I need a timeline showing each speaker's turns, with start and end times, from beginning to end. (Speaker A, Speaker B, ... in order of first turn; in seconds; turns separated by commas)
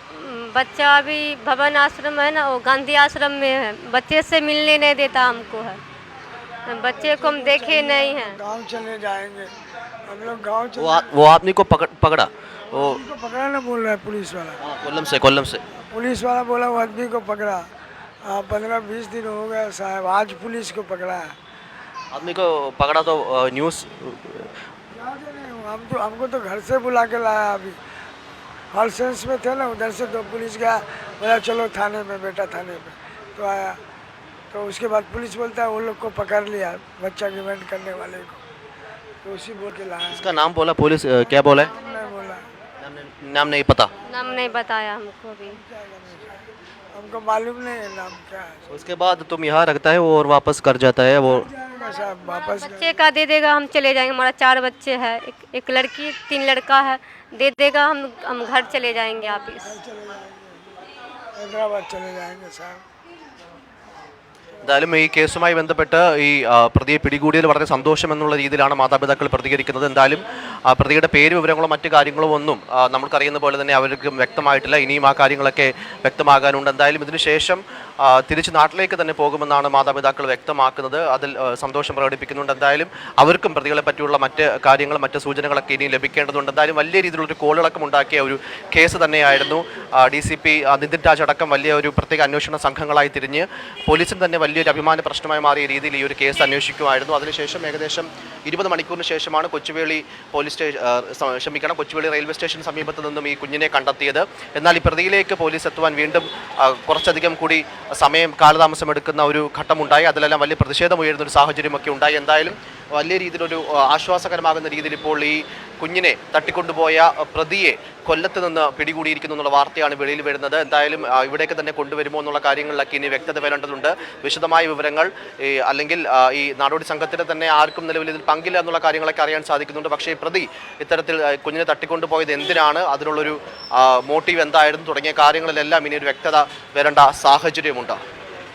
Speaker A: 0.1-5.8, Speaker A: 6.7-8.4, Speaker B: 7.0-9.5, Speaker B: 10.1-11.1, Speaker C: 10.8-13.0, Speaker B: 12.8-14.6, Speaker C: 14.6-15.6, Speaker B: 15.8-17.7, Speaker B: 18.2-21.3, Speaker C: 22.1-24.5, Speaker B: 24.9-27.8, Speaker B: 28.7-33.8, Speaker B: 34.5-38.4, Speaker B: 39.2-40.2, Speaker C: 40.1-41.7, Speaker B: 41.6-42.5, Speaker C: 42.8-43.9, Speaker A: 44.0-45.6, Speaker B: 45.5-46.4, Speaker B: 47.0-48.7, Speaker C: 48.7-51.5, Speaker B: 51.4-53.0, Speaker A: 52.4-59.8, Speaker B: 59.5-60.6, Speaker B: 61.4-62.8, Speaker C: 64.6-138.0